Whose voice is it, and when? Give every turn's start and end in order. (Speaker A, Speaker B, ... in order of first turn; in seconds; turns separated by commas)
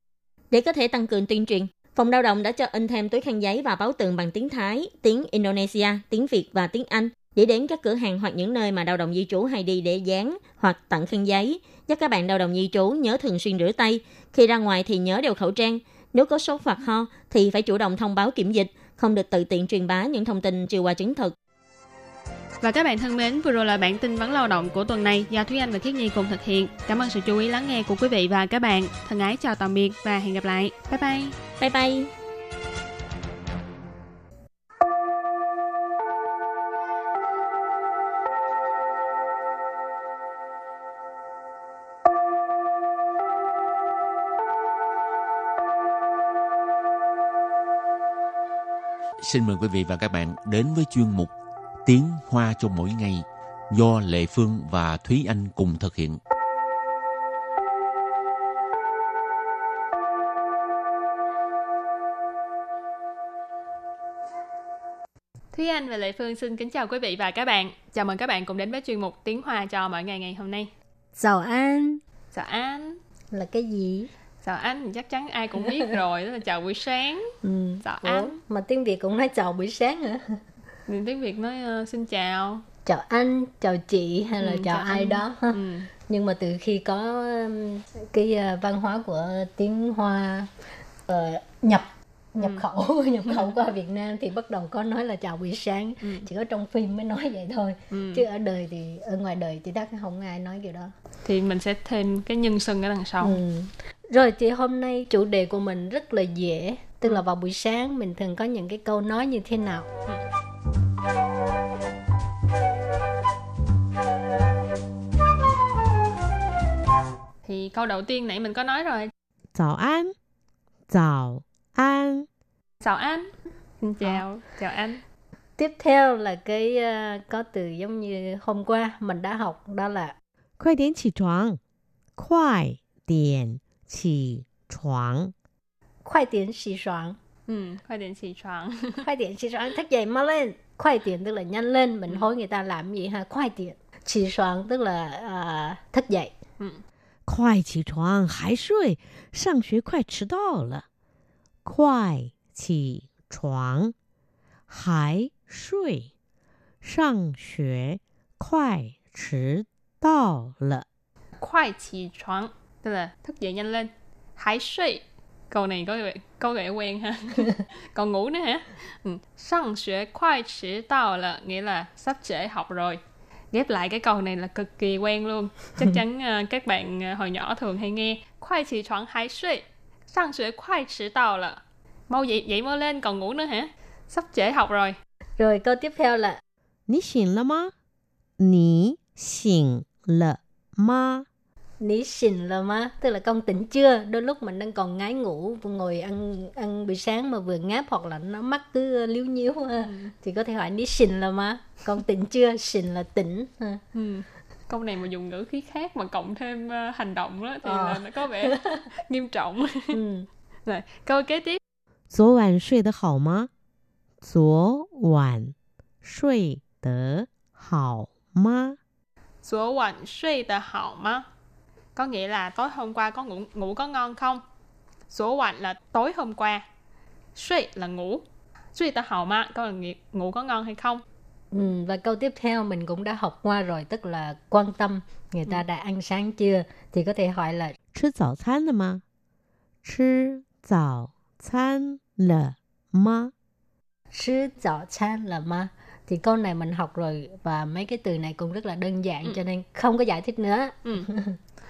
Speaker A: 0.5-21.3, Speaker B: 22.6-31.4, Speaker A: 31.6-32.1, Speaker C: 49.2-51.3, Speaker C: 51.8-56.2, Speaker B: 65.5-70.7, Speaker D: 71.2-72.0, Speaker B: 72.3-73.0, Speaker D: 73.3-74.1, Speaker B: 74.4-78.3, Speaker D: 77.4-80.4, Speaker B: 80.9-82.6, Speaker D: 82.8-90.5, Speaker B: 84.4-85.9, Speaker D: 91.1-100.9, Speaker B: 92.4-92.6, Speaker B: 97.9-98.2, Speaker B: 101.2-103.4, Speaker D: 103.2-109.9, Speaker B: 117.4-119.1, Speaker E: 119.5-120.1, Speaker E: 120.9-122.3, Speaker B: 122.8-123.3, Speaker B: 123.8-125.0, Speaker D: 125.6-130.2, Speaker E: 130.6-131.6, Speaker E: 132.2-135.3, Speaker D: 136.1-137.2, Speaker B: 137.5-139.0, Speaker D: 139.0-146.3, Speaker E: 147.3-150.8, Speaker E: 151.6-153.9, Speaker E: 154.7-156.1, Speaker E: 156.8-160.8, Speaker B: 161.4-173.0, Speaker B: 173.5-185.0, Speaker D: 185.4-186.4, Speaker E: 186.9-187.7, Speaker E: 188.4-191.2, Speaker D: 191.8-203.8, Speaker B: 199.8-200.1, Speaker B: 203.9-210.0, Speaker D: 207.6-208.8, Speaker D: 209.9-210.3, Speaker B: 210.7-211.6, Speaker E: 212.1-213.5, Speaker E: 214.2-218.8, Speaker B: 219.4-221.3, Speaker B: 221.9-224.4, Speaker B: 225.1-226.7, Speaker B: 227.3-228.2, Speaker B: 228.7-231.0, Speaker D: 231.5-237.7, Speaker E: 237.9-239.0, Speaker E: 239.8-243.3, Speaker D: 244.1-251.4